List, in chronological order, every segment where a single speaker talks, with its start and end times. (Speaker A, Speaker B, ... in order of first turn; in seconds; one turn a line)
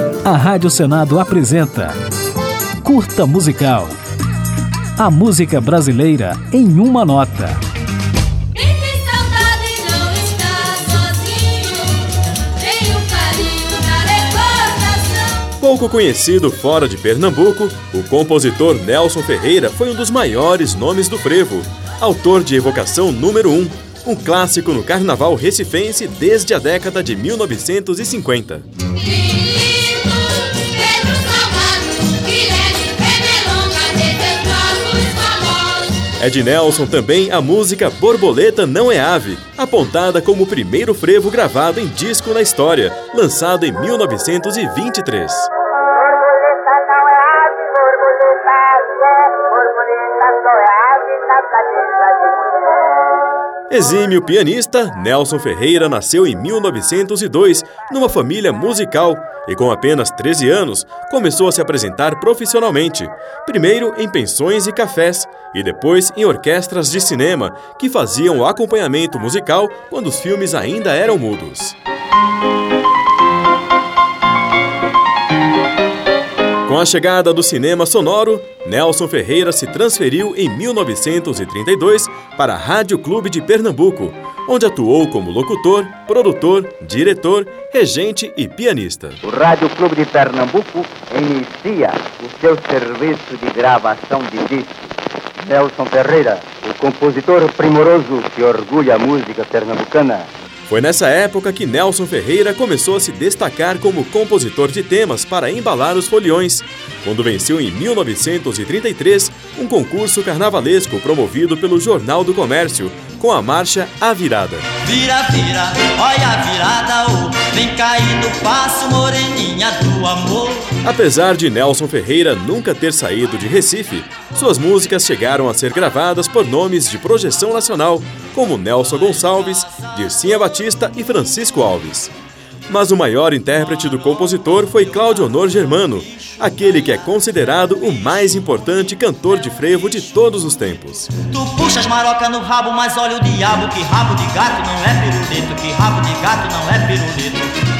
Speaker A: 0.2-2.0
Speaker A: 2.8-4.0
Speaker A: 5.0-7.6
Speaker B: 8.5-15.4
Speaker C: 15.6-28.7
Speaker B: 29.1-36.0
Speaker C: 36.2-45.5
Speaker D: 46.1-52.7
Speaker C: 53.7-71.8
Speaker C: 76.7-89.2
Speaker D: 89.2-94.9
Speaker D: 95.4-100.3
Speaker C: 100.7-114.7
Speaker E: 114.8-120.8
Speaker C: 120.8-132.1
Speaker C: 132.7-141.1
Speaker E: 141.2-147.5